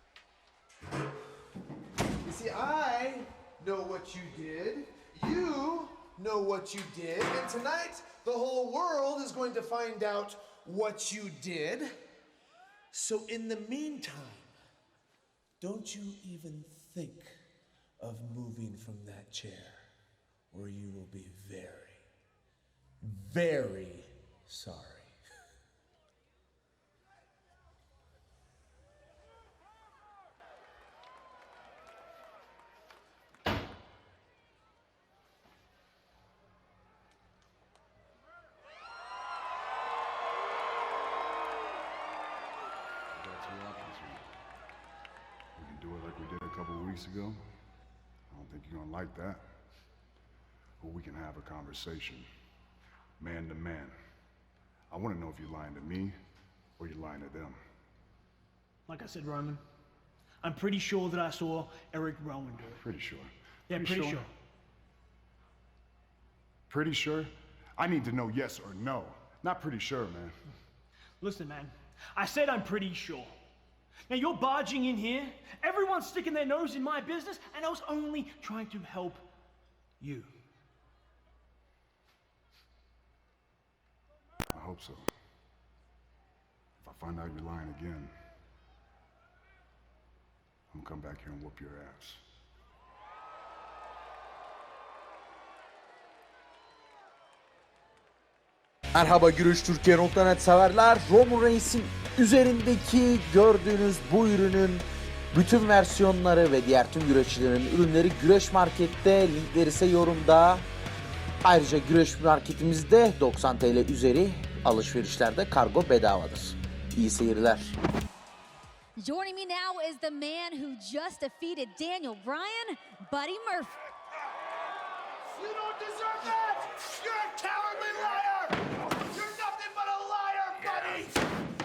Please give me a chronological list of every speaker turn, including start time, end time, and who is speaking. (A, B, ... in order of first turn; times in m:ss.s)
0:02.2-0:11.9 A
0:12.9-0:14.5 A
0:15.6-0:17.4 A
0:18.0-0:19.9 A
0:20.5-0:22.0 A
0:23.0-0:25.2 A
0:43.1-0:44.2 B
0:45.6-0:47.4 B
0:48.3-0:49.4 B
0:50.8-0:52.3 B
0:53.2-0:53.9 B
0:54.9-0:56.2 B
0:56.8-0:57.6 B
0:58.9-0:59.6 C
1:00.4-1:02.8 C
1:02.7-1:04.2 B
1:03.7-1:04.3 C
1:06.7-1:10.4 B
1:11.2-1:13.4 C
1:14.1-1:19.2 C
1:20.0-1:20.3 C
1:24.5-1:25.1 B
1:26.8-1:28.1 B
1:30.7-1:32.2 B
1:38.9-1:50.7 D
1:51.4-1:57.8 D
1:59.0-2:03.8 E
2:05.3-2:11.2 A